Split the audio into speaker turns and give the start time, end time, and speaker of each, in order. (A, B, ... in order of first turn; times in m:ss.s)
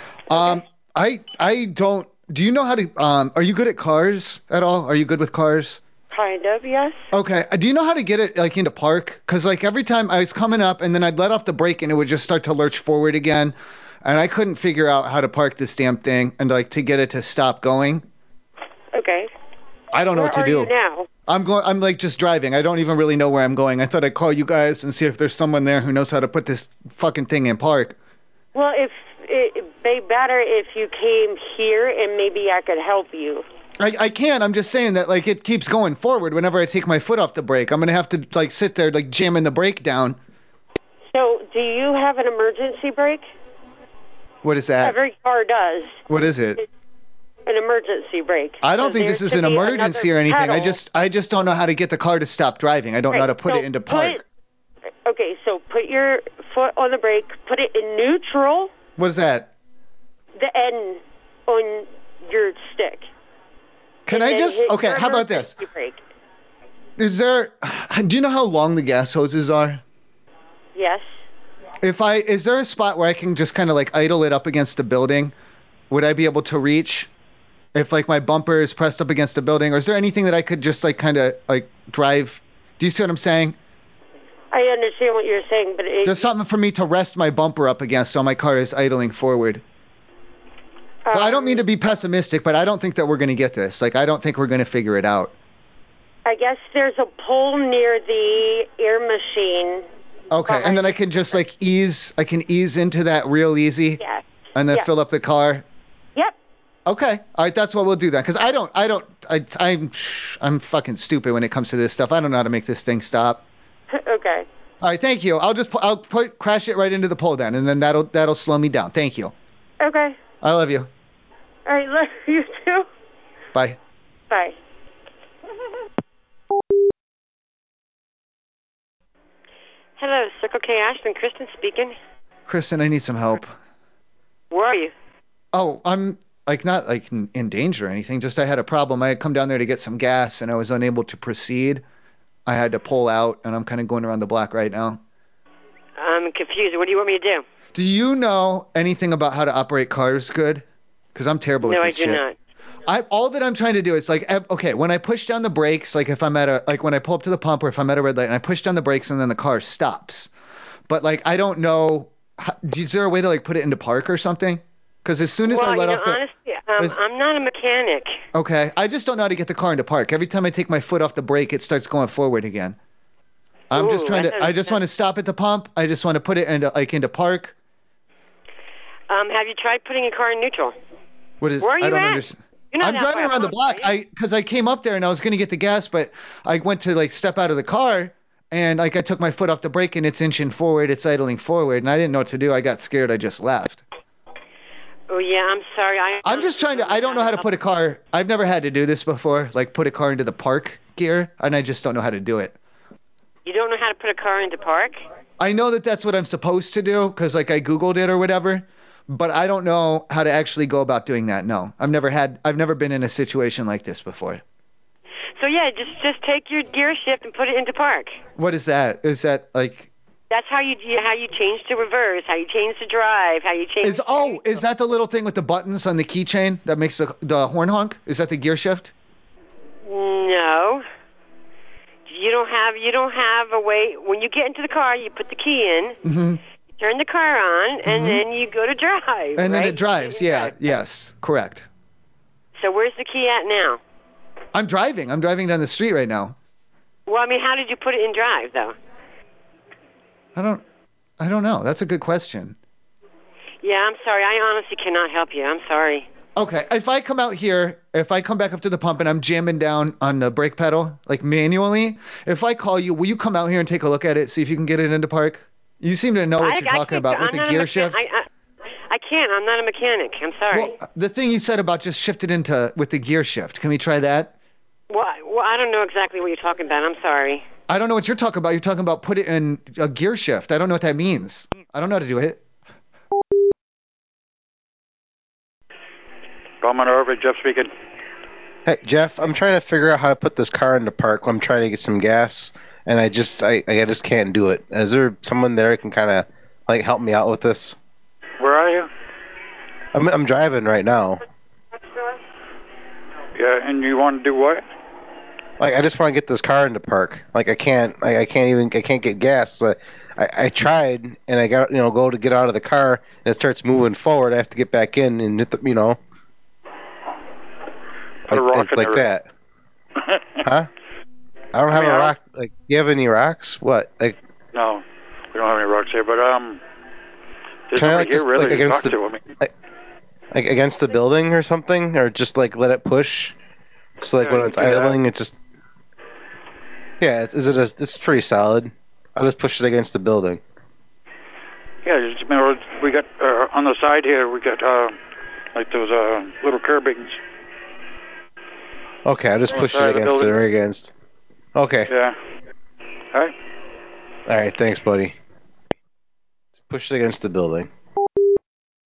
0:00.3-0:05.8 A
0:06.1-0:07.0 B
0:07.1-0:18.0 A
0:18.9-0:19.3 B
0:19.9-0:20.7 A
0:20.2-0:21.1 B
0:21.3-0:28.0 A
0:28.5-0:33.4 B
0:33.8-0:40.2 A
0:41.1-0:43.2 B
0:44.4-0:45.0 A
0:44.8-0:46.0 B
0:46.1-0:46.6 A
0:47.5-0:50.8 B
0:48.6-0:54.2 A
0:53.1-0:54.2 B
0:55.0-0:58.7 B
0:59.0-0:59.5 A
1:00.4-1:03.1 B
1:04.1-1:05.6 A
1:04.1-1:06.0 B
1:07.0-1:09.8 A
1:10.8-1:11.0 B
1:11.8-1:15.3 A
1:15.9-1:17.1 A
1:17.7-1:23.6 A
1:24.5-1:26.3 B
1:26.0-1:29.6 A
1:31.0-1:31.6 B
1:31.1-1:35.3 A
1:36.2-1:39.8 B
1:40.3-1:44.0 A
1:40.5-1:41.0 B
1:44.0-1:44.9 B
1:44.6-1:45.6 A
1:46.9-1:53.4 A
1:53.9-1:54.5 B
1:54.8-1:59.3 A
1:59.8-2:00.2 B
2:00.4-2:00.9 A
2:01.7-2:02.9 B
2:03.5-2:03.8 A
2:04.3-2:04.6 B
2:10.0-2:12.0 B
2:12.5-2:13.6 A
2:14.5-2:14.9 B
2:15.5-2:21.8 A
2:22.5-2:25.0 A
2:26.0-2:27.4 B
2:27.7-2:32.2 A
2:31.6-2:32.4 B
2:32.9-2:40.3 A
2:40.9-2:46.2 A
2:45.5-2:48.2 B
2:48.3-2:52.8 A
2:53.7-2:57.5 A
2:53.7-2:54.8 B
2:59.1-3:00.8 B
3:01.4-3:13.8 A
3:01.6-3:03.9 B
3:15.1-3:17.5 B
3:16.2-3:22.6 A
3:23.4-3:25.0 B
3:25.4-3:34.4 A
3:35.4-3:38.2 B
3:38.4-3:39.9 A
3:40.3-3:44.4 B
3:43.8-3:48.9 A
3:49.8-3:50.8 B
3:52.1-3:56.0 B
3:56.0-3:56.4 A
3:56.8-4:00.8 B
3:57.9-3:58.2 A
3:59.4-4:01.7 A
4:02.6-4:03.8 B
4:04.5-4:06.4 A
4:07.1-4:08.8 B
4:10.4-4:10.6 A
4:11.2-4:12.6 A
4:13.6-4:16.1 B
4:16.4-4:28.0 A
4:26.4-4:28.3 B
4:28.9-4:30.8 B
4:30.5-4:34.3 A
4:34.9-4:37.4 B
4:37.7-4:42.4 A
4:46.6-4:47.7 C
4:48.7-4:57.8 D
4:58.4-4:58.9 C
5:00.0-5:01.2 D
5:03.4-5:04.6 C
5:05.6-5:16.0 D
5:18.3-5:19.1 C
5:18.3-5:19.3 D
5:20.4-5:20.7 D
5:21.5-5:24.2 D
5:21.7-5:22.2 C
5:24.5-5:26.6 C
5:27.7-5:29.2 C
5:27.8-5:29.5 D
5:30.3-5:33.3 D
5:34.0-5:35.4 D
5:34.2-5:35.0 C
5:37.0-5:40.4 D
5:41.8-5:45.0 C
5:45.6-5:47.2 C
5:49.1-5:50.9 D
5:49.5-5:50.5 C
5:51.6-5:51.9 D
5:51.9-5:52.2 C
5:54.3-5:55.2 D
5:56.6-5:57.7 D